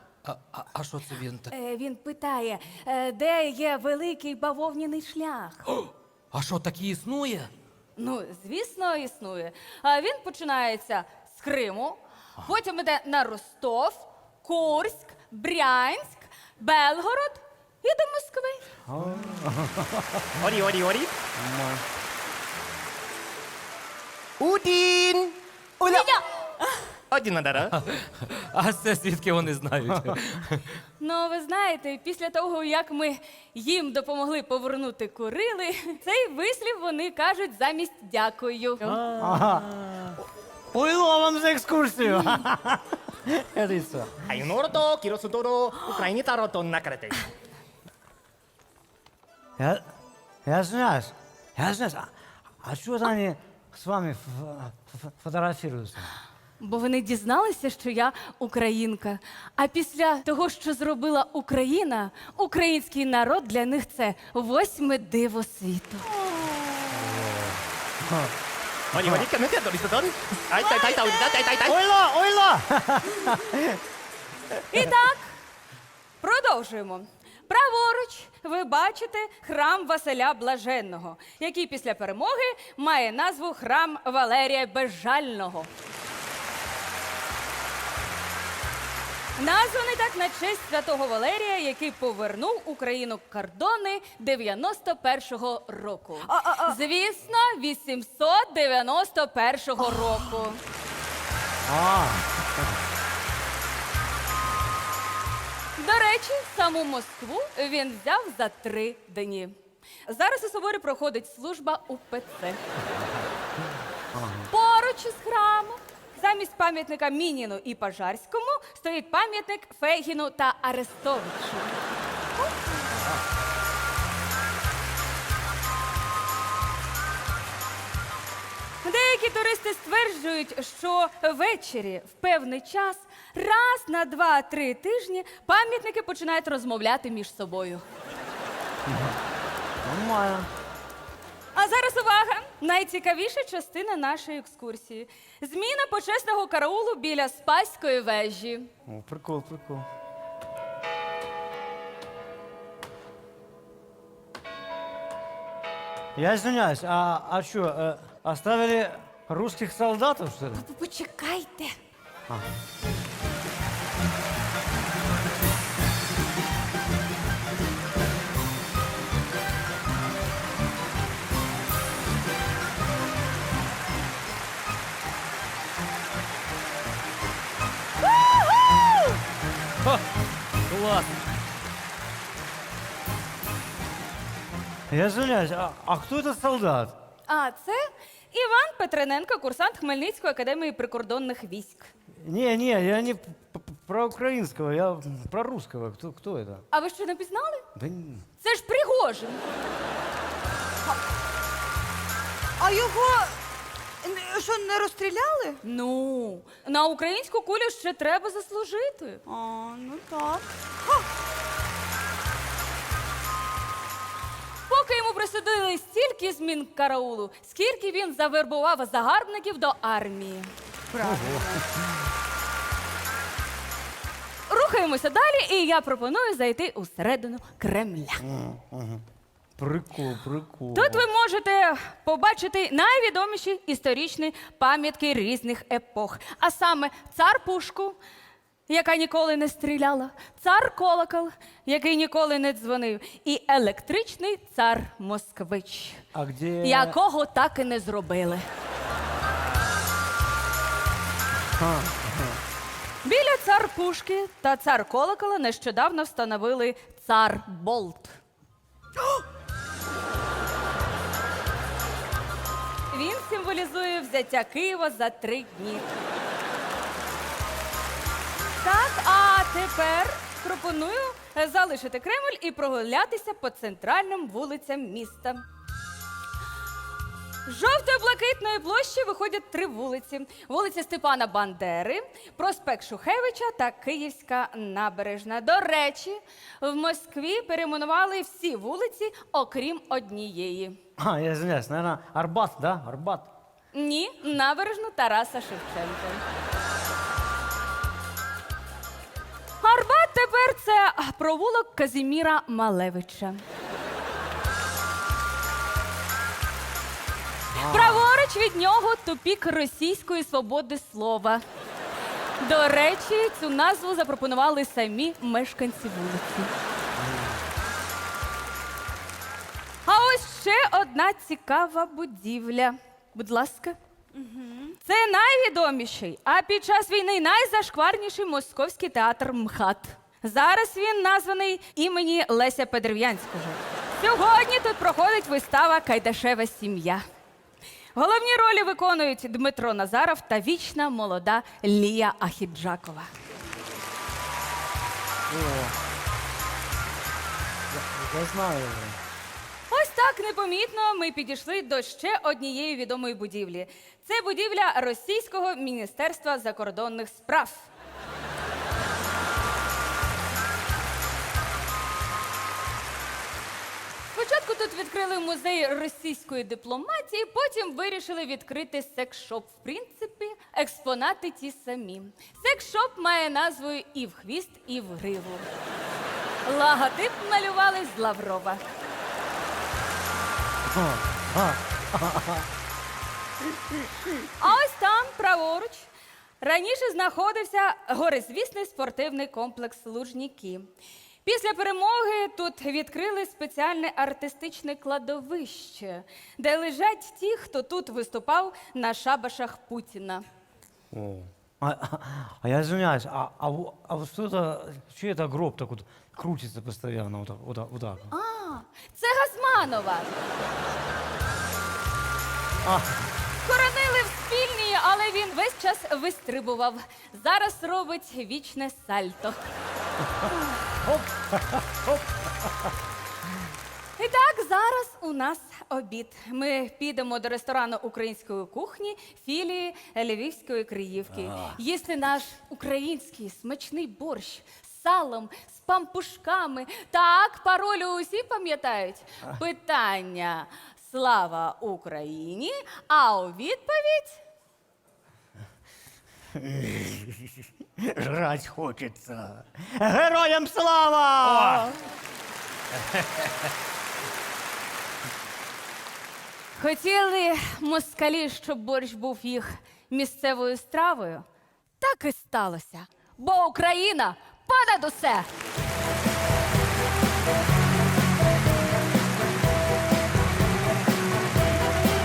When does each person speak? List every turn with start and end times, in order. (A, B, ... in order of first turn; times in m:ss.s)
0:00.2-0:01.5 A
0:01.5-0:05.7 B
0:06.3-0:07.5 A
0:08.0-0:18.6 B
0:18.9-0:20.4 C
0:20.4-0:21.2 D
0:21.4-0:21.8 C
0:24.4-0:26.1 D
0:25.9-0:26.2 B
0:27.1-0:27.8 D
0:27.8-0:30.7 A
0:31.0-0:39.0 B
0:38.9-0:44.3 C
0:44.3-0:47.2 D
0:50.4-0:52.1 C
0:52.6-0:56.1 C
0:56.6-1:06.1 B
1:06.2-1:06.9 E
1:06.9-1:08.3 C
1:08.9-1:11.8 D
1:09.0-1:09.2 C
1:11.6-1:13.8 C
1:14.7-1:15.2 B
1:16.2-1:25.7 B
1:29.4-1:40.6 B
1:36.3-1:36.8 E
1:41.6-1:42.8 C
1:45.8-1:49.5 B
1:50.1-1:52.6 B
1:54.1-1:54.5 C
1:54.5-2:01.8 B
2:02.4-2:03.0 E
2:08.8-2:17.8 B
2:18.9-2:19.2 C
2:19.8-2:20.5 C
2:21.5-2:28.7 B
2:28.9-2:29.9 C
2:36.2-2:40.6 C
2:40.6-2:41.8 B
3:00.7-3:01.1 C
3:04.9-3:07.0 C
3:07.3-3:11.9 B
3:12.2-3:16.6 C
3:16.7-3:17.6 B
3:17.8-3:18.2 C
3:18.4-3:19.4 B
3:22.6-3:23.4 E
3:24.0-3:25.6 E
3:25.6-3:29.2 B
3:29.3-3:31.0 E
3:34.7-3:40.5 B
3:40.9-3:41.5 E
3:41.0-3:41.7 C
3:44.5-3:48.2 B
3:48.2-3:49.0 C
3:49.6-3:51.1 C
3:50.7-3:58.0 B
3:58.7-4:06.0 B
4:06.1-4:07.0 C
4:06.6-4:08.4 B
4:11.5-4:12.4 C
4:13.0-4:18.2 B
4:22.9-4:25.9 B
4:28.5-4:35.4 B
4:37.4-4:50.8 B
4:51.0-4:53.3 C
4:53.7-4:56.2 B
4:59.6-5:03.4 B
5:07.5-5:08.1 C
5:07.6-5:11.4 B
5:12.4-5:16.5 B
5:17.0-5:17.4 C
5:19.8-5:23.8 B
5:24.2-5:24.8 E
5:24.8-5:37.0 B
5:38.0-5:43.1 B
5:45.3-5:45.8 C
5:47.7-5:49.0 C
5:49.7-5:57.7 B
6:04.1-6:15.5 B
6:16.4-6:18.6 B
6:20.7-6:22.5 C
6:24.4-6:30.7 B
6:31.2-6:40.2 B
6:40.9-6:48.1 C
6:48.1-6:50.2 B
6:52.6-6:53.1 C
6:53.4-6:59.5 B
7:00.8-7:02.5 C
7:04.0-7:24.2 B
7:26.4-7:31.7 C
7:36.6-7:41.2 B
7:41.8-7:45.3 B